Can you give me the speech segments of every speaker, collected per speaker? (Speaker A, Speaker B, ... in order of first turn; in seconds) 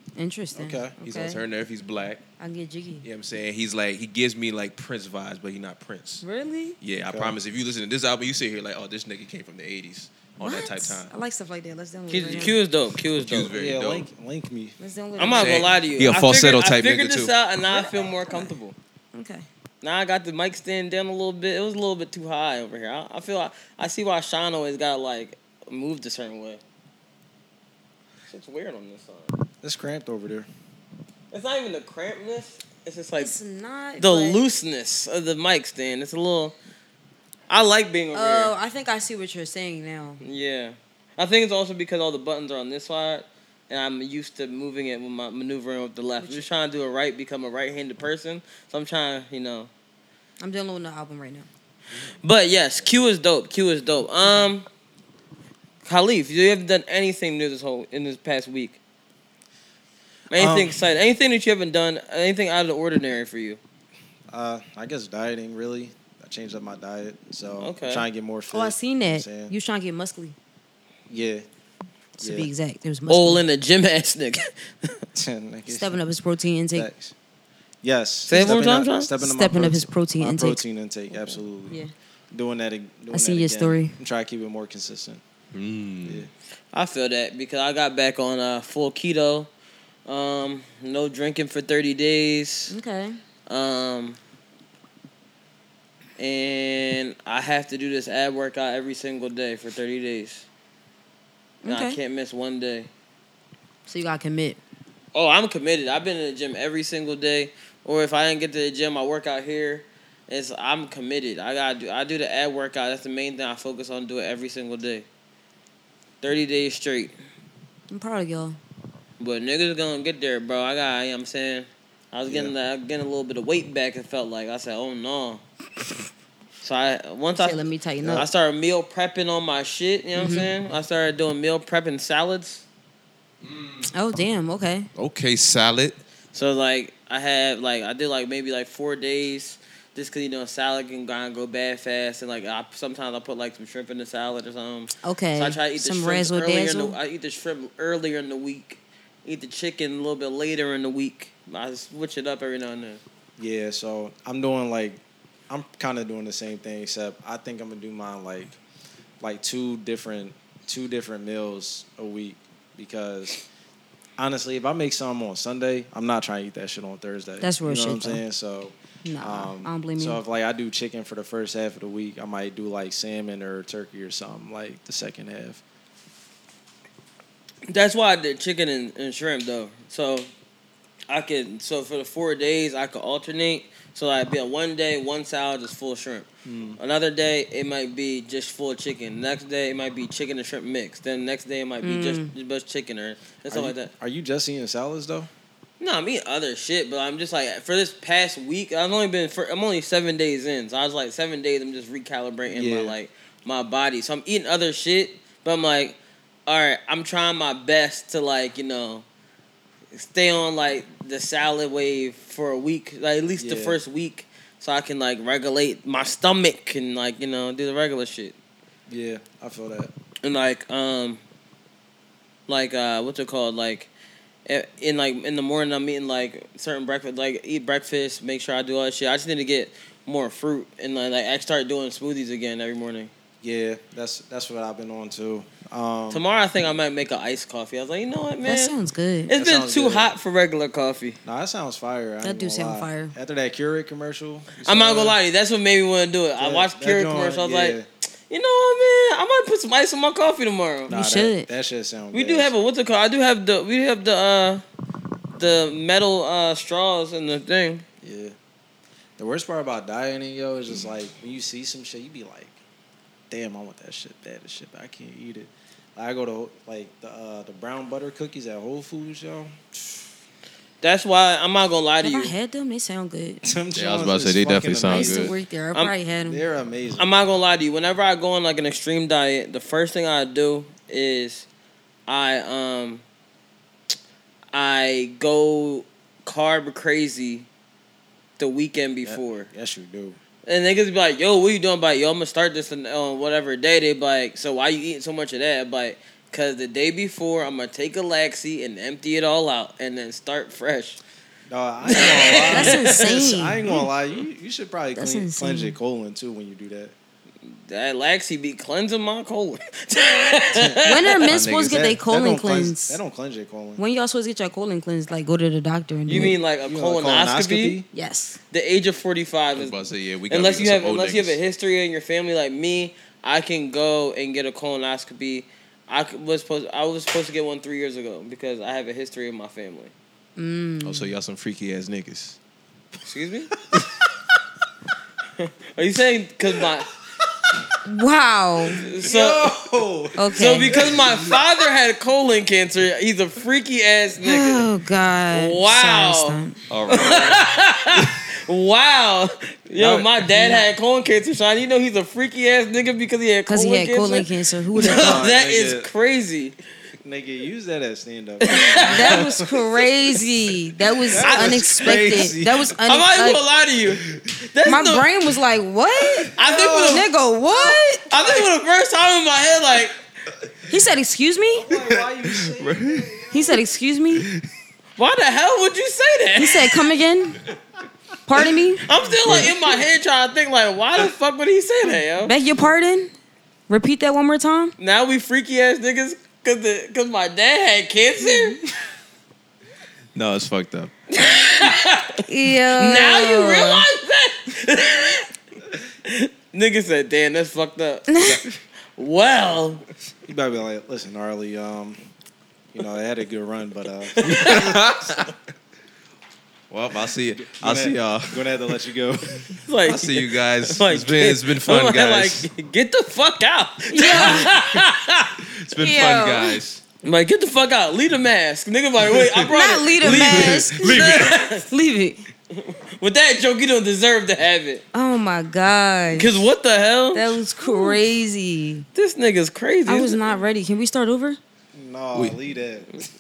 Speaker A: 0.2-1.4, 2.4-3.1, 6.2-6.8, 10.4-12.6, 14.8-15.7, 17.7-18.6, 19.1-19.5, 33.2-34.4, 38.1-40.2, 46.2-46.5, 50.4-51.5, 68.5-70.3, 72.2-73.4, 75.7-76.9, 79.2-81.9, 83.1-83.9, 92.7-93.2, 101.6-102.0, 103.9-104.6, 117.9-118.6, 127.3-128.3, 130.2-130.5, 133.9-134.9, 145.0-147.0, 167.4-168.2, 169.1-170.2, 191.8-192.3, 238.4-239.3, 242.2-243.1, 250.9-251.5, 272.0-273.4, 274.9-276.4, 302.4-303.6, 305.0-305.8, 310.8-313.0, 313.8-316.4, 317.9-318.4, 330.4-331.1, 337.9-338.8, 340.2-340.9, 344.2-346.6, 350.4-350.6, 353.5-355.2, 358.9-363.4, 364.6-368.1, 370.7-371.7, 373.3-374.3, 376.4-377.4, 378.3-378.9, 382.2-383.1, 383.7-384.7, 392.3-393.9, 398.1-398.4, 413.9-414.5, 415.8-416.6, 419.4-422.2, 424.9-426.4, 427.1-428.9, 429.9-431.4
Speaker B: 0.6-1.0, 7.1-7.3, 13.5-14.8, 29.6-30.5, 60.4-60.7, 64.3-69.5, 71.1-71.5, 72.2-72.5, 75.2-76.0, 76.8-77.1, 77.8-81.8, 82.3-85.2, 122.3-122.5, 153.4-158.6, 159.2-163.4, 164.2-175.6, 186.4-186.8, 193.5-195.3, 202.5-203.0, 213.4-213.8, 218.9-219.9, 233.4-236.2, 239.3-240.1, 241.2-245.2, 246.4-247.9, 250.9-252.5, 258.0-258.3, 259.2-262.6, 263.3-269.9, 273.4-275.3, 276.2-277.1, 289.1-290.2, 301.5-306.9, 310.5-310.8, 311.6-313.8, 316.6-317.9, 339.0-341.4, 349.8-350.1, 354.8-355.9, 357.0-359.6, 361.1-362.7, 366.4-367.1, 371.5-373.6, 400.3-402.0, 402.7-404.8, 407.4-409.4, 431.7-432.9
Speaker C: 1.0-2.2, 3.0-6.2, 6.8-11.1, 13.2-14.1, 15.3-17.3, 85.5-86.3, 133.4-133.8, 134.9-136.0, 273.7-275.3, 311.3-311.9, 319.6-321.4, 330.8-332.4, 346.7-347.5, 371.8-373.1, 374.2-374.4, 390.1-390.9, 404.2-405.3, 406.7-408.6, 409.9-412.5, 415.6-416.8, 420.0-421.4
Speaker D: 12.1-13.5, 15.2-18.8, 19.8-26.6, 28.3-29.3, 31.3-33.4, 34.0-36.5, 37.5-38.5, 40.2-49.7, 52.2-54.7, 55.9-58.8, 60.3-63.6, 67.6-68.0, 73.1-74.9, 78.3-79.1, 86.7-89.5, 90.1-92.8, 93.5-94.2, 96.2-100.5, 101.7-102.9, 105.2-115.1, 116.2-117.1, 119.2-125.4, 126.6-132.7, 136.3-153.0, 177.7-180.3, 181.1-193.9, 195.8-209.1, 209.9-218.4, 220.2-221.2, 222.5-223.9, 224.5-233.1, 236.1-238.7, 239.3-241.2, 244.6-250.9, 252.1-254.6, 255.4-257.9, 270.8-272.4, 277.0-281.5, 282.1-283.0, 284.5-287.5, 288.4-289.5, 290.4-301.0, 301.9-302.9, 307.7-311.2, 316.1-317.8, 318.5-319.8, 320.3-329.9, 333.1-333.5, 335.4-336.9, 338.8-339.6, 340.4-344.7, 345.3-356.6, 358.4-359.2, 361.2-362.0, 362.9-365.1, 366.4-367.1, 368.1-369.9, 375.0-376.8, 378.9-382.3, 384.8-388.6, 391.1-392.2, 392.7-395.3, 396.1-398.4, 399.0-399.8, 404.2-404.7, 409.6-415.4, 417.0-421.7, 422.6-424.8, 426.1-428.0, 428.9-430.4